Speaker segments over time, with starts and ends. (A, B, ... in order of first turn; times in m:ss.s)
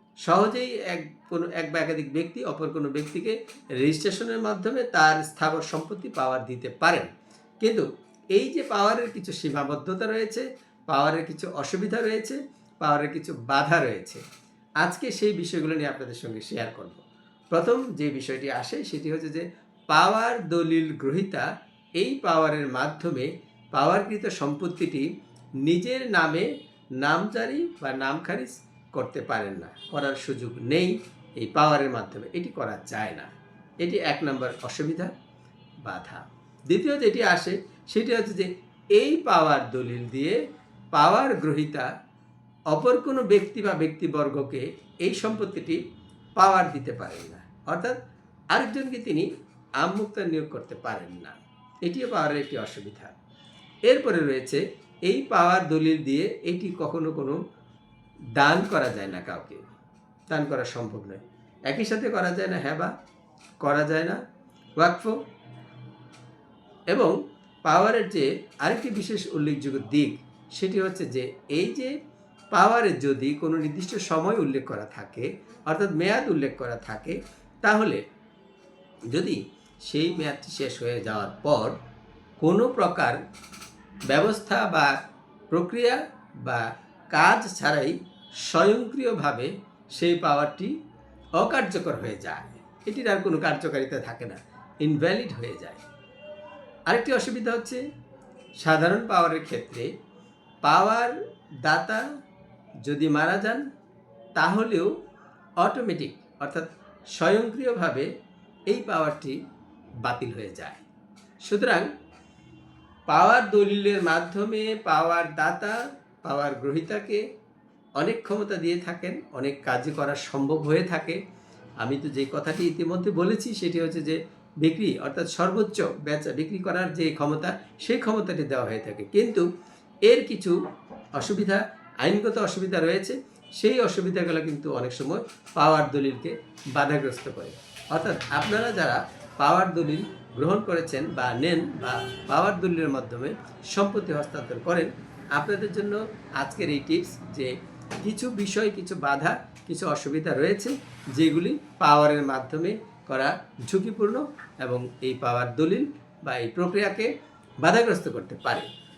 0:00.2-0:07.1 A
0:07.6-0:14.2 A
0:14.8-0:25.1 A
0:25.6-0:35.1 A
0:35.8-0:40.4 A
0:40.9-0:41.9 A
0:42.7-0:45.8 A
0:46.4-0:48.0 A
0:48.5-0:49.3 A
0:49.8-0:53.1 A
0:53.9-0:57.4 A
0:58.4-0:59.6 A
1:00.3-1:02.9 A
1:03.6-1:04.2 A
1:04.8-1:05.2 A
1:06.9-1:12.0 A
1:12.5-1:18.0 A
1:19.1-1:21.8 A
1:22.4-1:23.2 A
1:24.1-1:24.9 A
1:25.5-1:30.7 A
1:31.4-1:35.8 A
1:36.9-1:37.8 A
1:38.6-1:39.9 A
1:40.6-1:42.0 A
1:42.8-1:43.6 A
1:44.4-1:44.9 A
1:45.6-1:48.1 A
1:48.7-1:49.4 A
1:50.0-1:50.8 A
1:51.4-1:51.9 A
1:53.1-1:57.2 A
1:58.0-2:01.2 A
2:01.8-2:09.4 A
2:10.0-2:10.6 A
2:11.1-2:38.7 A